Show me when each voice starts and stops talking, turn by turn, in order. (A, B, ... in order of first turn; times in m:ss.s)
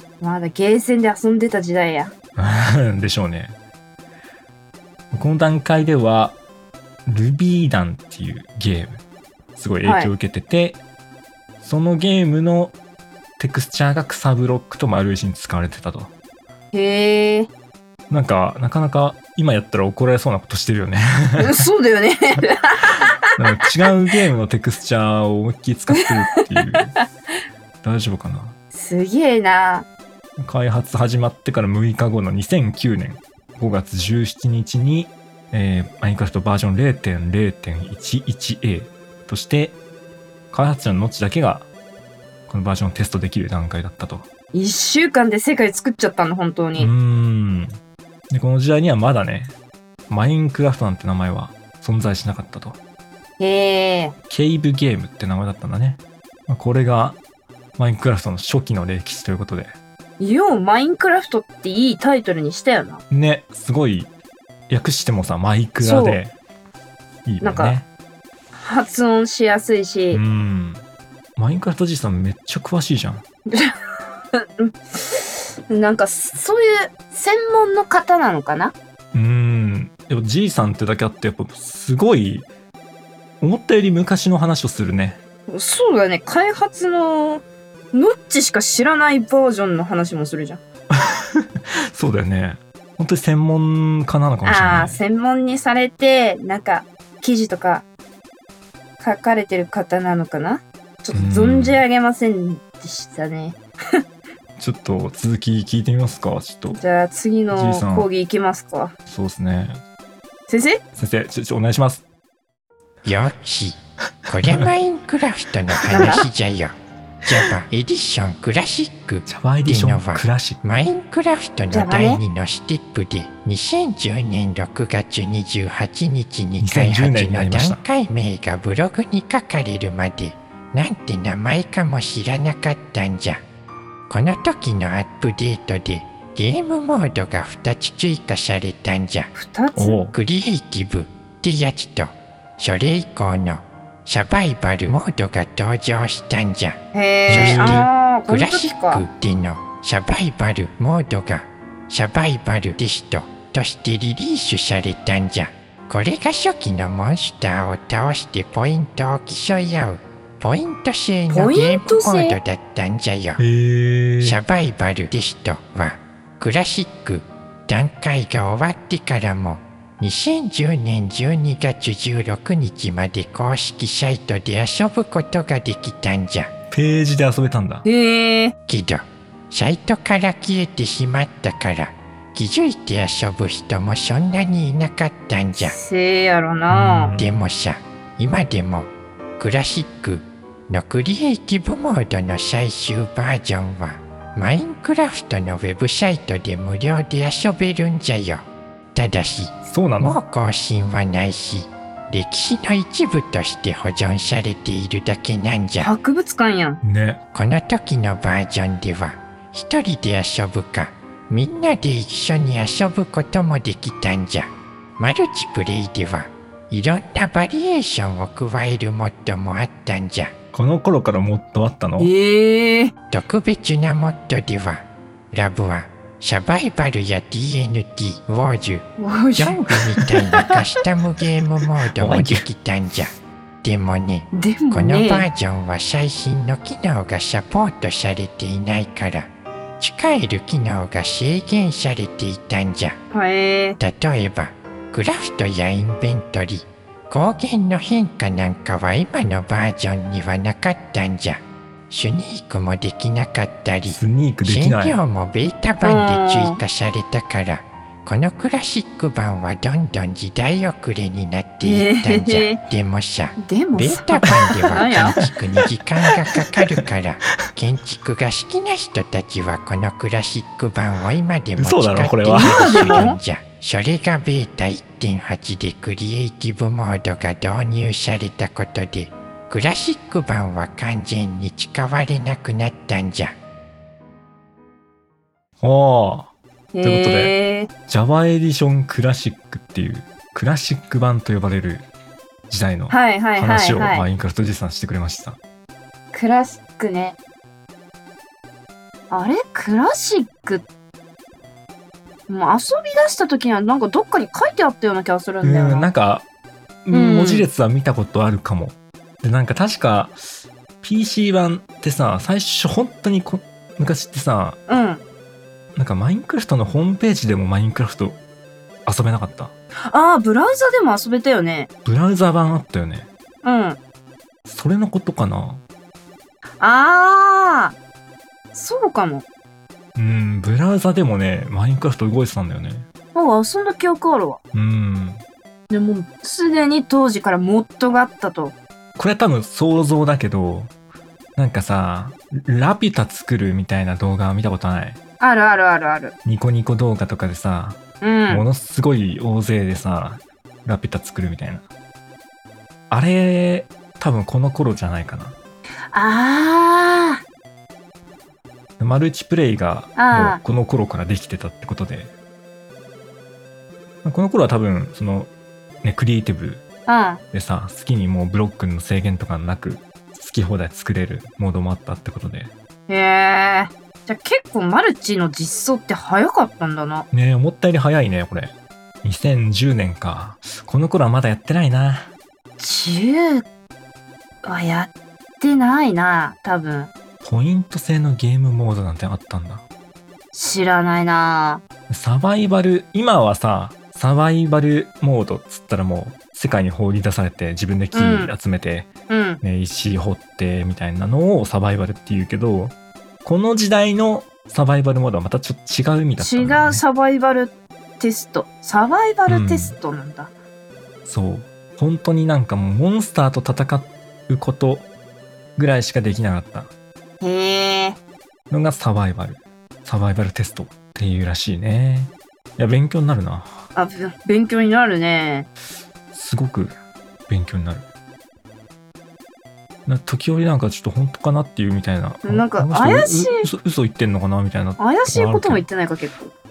0:00.2-0:02.1 A
0:02.4-0:03.6 B
0:05.1-0:06.4 B
0:07.1-0:09.0 B
0:09.6-0:10.8 B
0:09.8-0:10.1 A
0:11.6-0:12.7 B
0:13.4-0:16.1 B
0:16.7-0:17.5 A
0:18.1-0:21.6 B
0:21.4-0:23.3 A
0:23.4-0:27.0 B
0:25.9-0:27.0 A
0:27.8-0:28.6 B
0:28.7-0:29.9 A
0:30.4-0:39.8 B
0:40.5-0:41.6 B
0:42.5-0:44.3 B
0:44.5-0:46.9 A
0:46.8-0:47.8 B
0:48.3-0:49.5 B
0:50.1-0:52.8 B
0:53.4-0:54.1 A
0:54.3-0:57.2 B
0:57.8-0:59.7 B
1:00.2-1:03.0 A
1:03.1-1:04.1 B
1:04.7-1:06.3 B
1:05.8-1:06.2 A
1:07.3-1:07.9 B
1:07.4-1:07.8 A
1:08.6-1:10.2 A
1:10.1-1:10.8 B
1:11.4-1:13.2 B
1:13.5-1:13.7 A
1:14.4-1:18.7 A
1:19.1-1:22.5 B
1:23.4-1:25.2 B
1:25.5-1:30.6 A
1:30.9-1:35.0 B
1:34.4-1:37.8 A
1:39.0-1:44.0 A
1:41.1-1:41.8 B
1:44.6-1:46.8 B
1:46.8-1:48.9 A
1:47.5-1:48.1 B
1:49.1-1:49.8 B
1:50.5-1:50.8 A
1:51.0-1:52.0 B
1:53.0-1:56.8 C
1:54.4-1:54.7 B
1:55.9-1:56.1 B
1:55.9-1:56.2 A
1:57.3-2:13.4 C
1:59.3-2:00.6 B
2:01.7-2:02.2 A
2:06.6-2:07.8 B
2:14.1-2:19.3 C
2:19.4-2:20.0 A
2:19.8-2:20.1 B
2:20.1-2:43.4 C
2:26.9-2:29.0 A
2:27.3-2:27.9 B
2:41.3-2:42.4 A
2:43.4-2:44.4 B
2:44.2-2:56.5 C
2:56.7-2:57.8 B
2:57.8-2:58.5 A
2:58.7-3:05.8 C
3:05.6-3:07.1 A
3:06.7-3:07.3 B
3:07.2-3:25.9 C
3:19.7-3:20.2 B
3:25.8-3:26.8 A
3:26.8-3:27.2 B
3:27.3-3:40.3 C
3:40.5-3:42.1 B
3:42.0-3:42.9 A
3:43.1-3:59.3 C
3:49.0-3:49.6 A
3:52.0-3:52.5 B
3:54.3-3:55.3 A
3:59.8-4:03.0 C
4:03.1-4:03.8 A
4:03.8-4:43.4 C
4:13.9-4:15.0 B
4:15.8-4:16.6 A
4:21.6-4:22.6 A
4:23.4-4:25.2 A
4:24.2-4:25.3 B
4:26.1-4:26.8 B
4:31.6-4:33.1 B
4:32.3-4:33.2 A
4:45.6-4:46.3 B
4:46.7-4:47.7 A
4:46.8-4:47.4 B
4:47.9-4:51.9 B
4:52.5-4:55.4 B
4:52.9-4:54.1 A
4:56.1-4:57.2 A
4:59.1-5:00.6 A
5:02.3-5:05.9 A
5:05.4-5:06.2 B
5:06.8-5:10.2 B
5:06.9-5:07.5 A
5:10.8-5:14.6 B
5:14.7-5:15.0 A
5:15.8-5:18.2 B
5:18.9-5:19.5 B
5:19.9-5:21.7 A
5:21.8-5:23.1 B
5:23.4-5:23.8 A
5:24.5-5:25.6 B
5:26.6-5:27.8 A
5:28.5-5:29.2 A
5:30.0-5:32.9 B
5:33.1-5:34.4 A
5:34.5-5:35.2 B
5:35.7-5:38.6 A
5:39.0-5:40.7 B
5:41.4-5:45.0 B
5:45.2-5:46.1 A
5:46.2-5:51.6 B
5:48.0-5:48.4 A
5:52.9-5:55.4 B
5:55.9-5:57.2 A
5:58.8-6:02.1 B
6:00.0-6:00.4 A
6:04.0-6:05.3 B
6:05.8-6:06.6 B
6:06.9-6:07.2 A
6:07.3-6:12.5 B
6:12.9-6:17.1 A
6:17.1-6:22.1 B
6:22.6-6:23.4 A
6:24.4-6:26.9 A
6:27.2-6:29.6 B
6:30.3-6:31.6 A
6:31.9-6:38.9 B
6:37.9-6:38.3 A
6:39.1-6:39.4 A
6:39.4-6:46.8 B
6:46.2-6:50.3 A
6:49.3-6:49.8 B
6:51.0-6:54.9 B
6:55.6-6:56.7 B
6:57.2-6:58.0 A
6:58.5-7:03.6 B
7:03.8-7:05.5 A
7:06.1-7:06.7 B
7:07.3-7:07.8 B
7:09.9-7:15.6 B
7:12.2-7:13.5 A
7:14.8-7:16.3 A